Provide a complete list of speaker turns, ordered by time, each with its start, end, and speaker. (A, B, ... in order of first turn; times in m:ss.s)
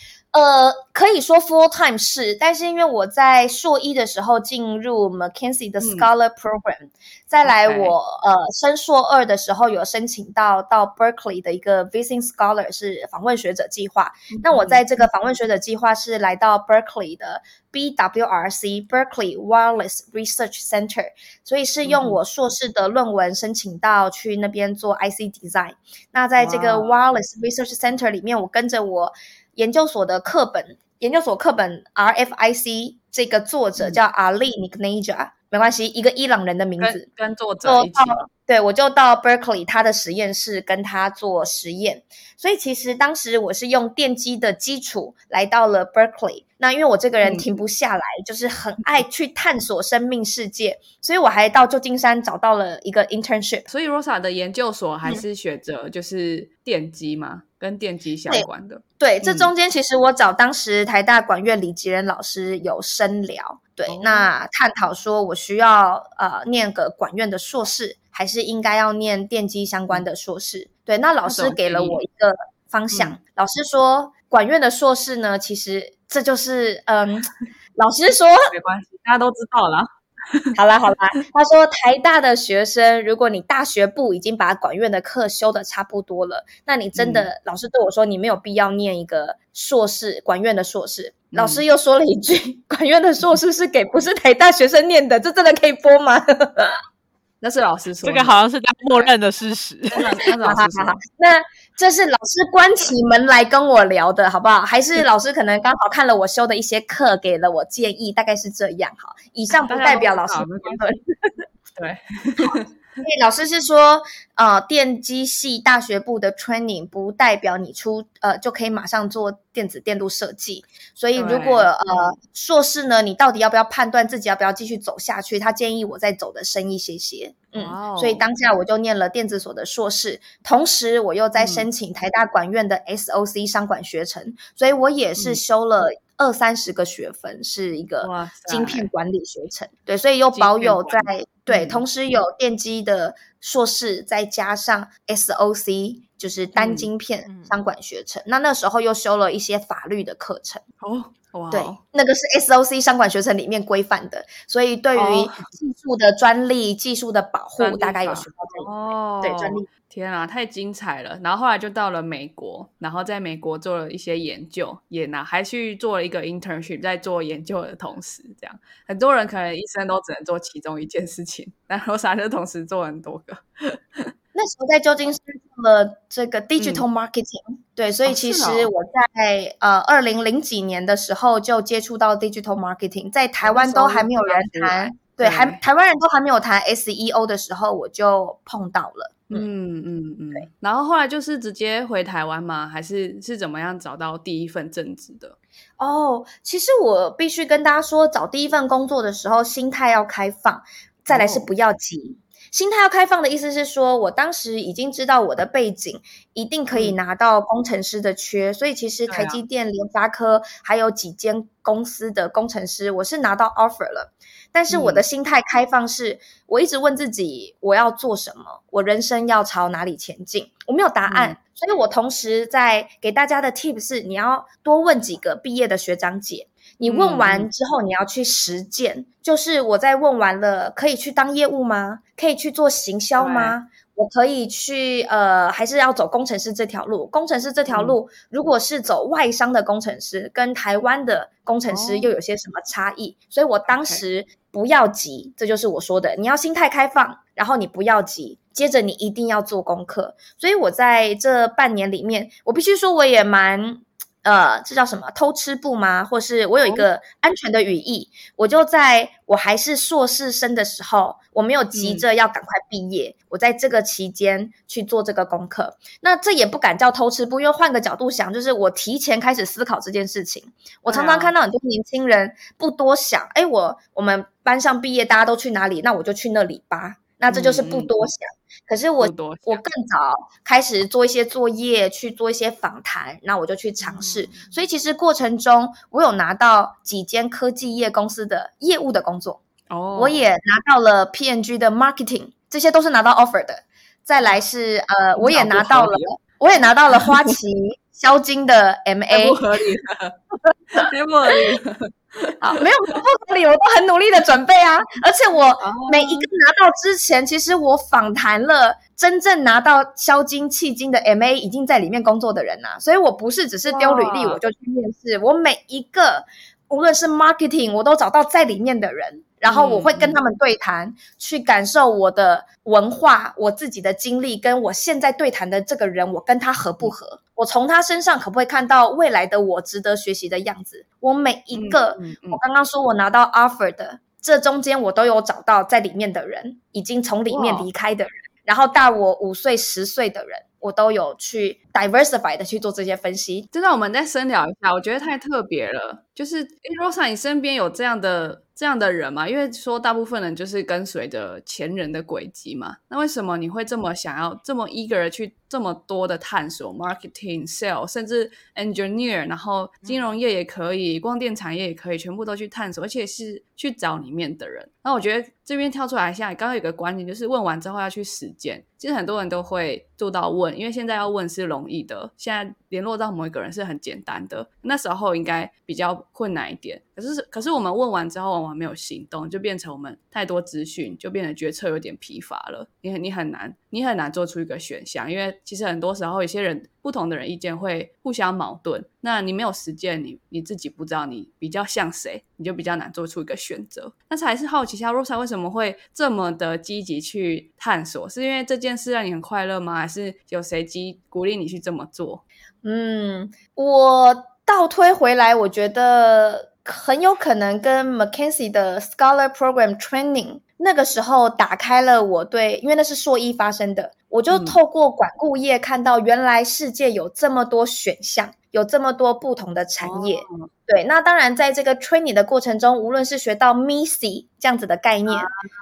0:00.3-0:37.0 A
0:05.8-0:06.1 B
0:07.4-0:07.9 B
0:14.3-0:14.8 B
0:21.8-0:22.2 B
0:26.4-0:27.0 B
0:36.8-0:38.2 B
0:37.6-0:53.6 A
0:47.2-0:47.4 B
0:53.7-0:59.5 B
0:59.0-1:18.5 A
1:03.9-1:04.3 B
1:11.2-1:12.0 B
1:18.5-1:20.5 B
1:20.6-1:36.8 A
1:26.9-1:27.3 B
1:31.3-1:31.6 B
1:37.4-1:38.4 B
1:38.0-1:40.1 C
1:39.9-1:41.0 B
1:40.4-1:51.3 A
1:49.6-1:50.8 B
1:51.8-1:52.7 B
1:52.4-2:30.6 A
2:01.1-2:02.1 B
2:07.5-2:08.2 B
2:11.4-2:11.6 B
2:18.0-2:18.9 B
2:20.3-2:21.8 B
2:26.6-2:26.9 B
2:27.2-2:27.5 C
2:30.8-2:31.8 B
2:31.5-2:39.7 A
2:34.9-2:35.5 B
2:37.6-2:54.1 B
2:54.3-3:09.5 A
2:56.6-2:56.8 B
2:58.0-2:58.7 B
3:03.4-3:05.6 B
3:09.3-3:15.4 B
3:15.8-4:49.4 A
3:21.1-3:21.5 B
3:29.1-3:29.4 B
3:34.7-3:35.0 B
3:41.0-3:41.4 B
3:46.8-3:47.5 B
3:53.2-3:53.6 B
3:57.7-3:58.0 B
4:01.7-4:02.1 B
4:03.7-4:04.0 B
4:21.7-4:22.0 B
4:30.9-4:31.3 B
4:37.3-4:38.0 B
4:39.0-4:39.6 B
4:43.8-4:44.5 B
4:49.7-4:50.2 B
4:50.0-4:59.4 A
4:55.2-4:56.1 B
4:56.9-4:57.3 B
4:59.1-5:00.2 B
5:00.7-5:03.0 B
5:02.4-5:43.5 A
5:05.6-5:06.3 B
5:13.7-5:14.4 B
5:19.5-5:20.2 B
5:31.5-5:32.4 B
5:37.3-5:37.7 B
5:43.5-6:42.2 B
6:42.6-7:05.3 A
6:54.3-6:54.6 B
6:59.8-7:00.5 B
7:05.1-7:05.4 B